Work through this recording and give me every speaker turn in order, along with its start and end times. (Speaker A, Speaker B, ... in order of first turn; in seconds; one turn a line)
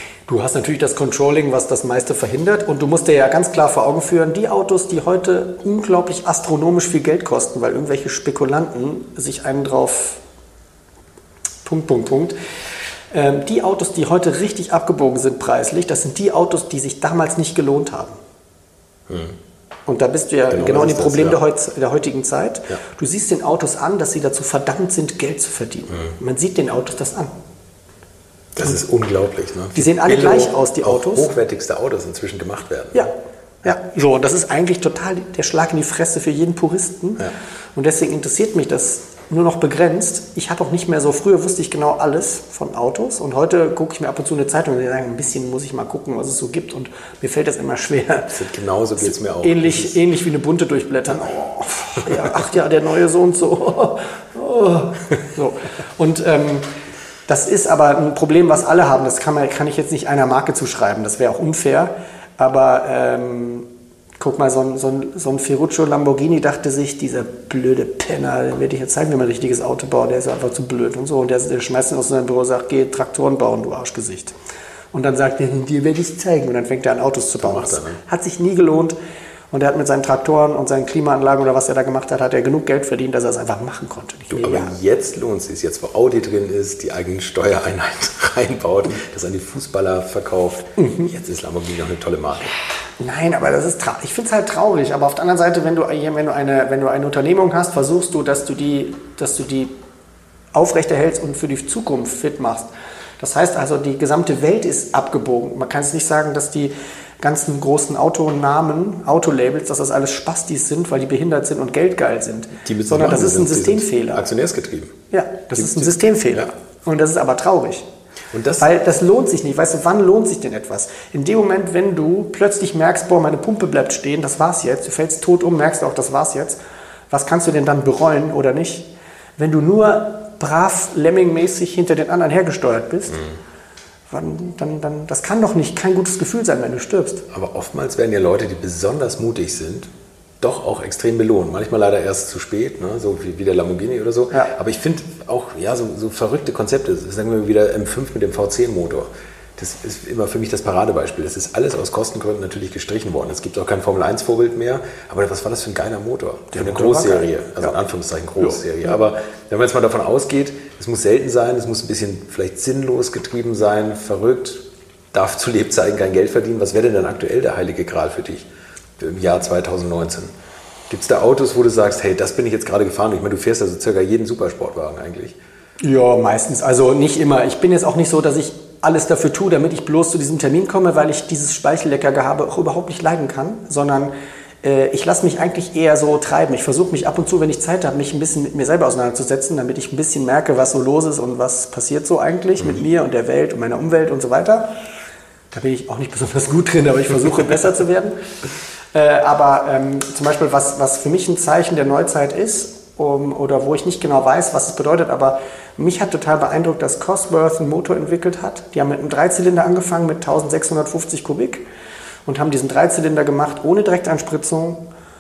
Speaker A: 0.3-10.2
Speaker A: 11.7-12.4
Speaker A: 13.1-18.2
Speaker B: 19.1-19.4
Speaker A: 19.9-27.3
Speaker B: 20.5-21.4
Speaker B: 28.6-33.1
Speaker A: 29.7-31.3
Speaker A: 33.6-48.4
Speaker B: 48.3-50.0
Speaker A: 49.0-56.7
Speaker A: 57.3-63.7
Speaker A: 64.2-74.3
Speaker A: 74.9-79.0
Speaker B: 77.4-78.0
Speaker A: 79.5-84.7
Speaker B: 84.3-92.5
Speaker A: 90.8-91.1
Speaker A: 93.0-99.7
Speaker A: 100.5-114.2
Speaker B: 112.6-115.0
Speaker A: 115.1-117.9
Speaker B: 115.6-116.5
Speaker B: 118.3-118.7
Speaker A: 118.6-126.6
Speaker A: 127.1-133.2
Speaker A: 134.1-137.2
Speaker B: 137.3-139.9
Speaker B: 140.4-168.5
Speaker A: 156.5-157.8
Speaker B: 169.0-170.3
Speaker B: 170.9-175.4
Speaker A: 175.8-194.8
Speaker A: 195.5-198.2
Speaker A: 198.9-211.6
Speaker A: 212.3-214.9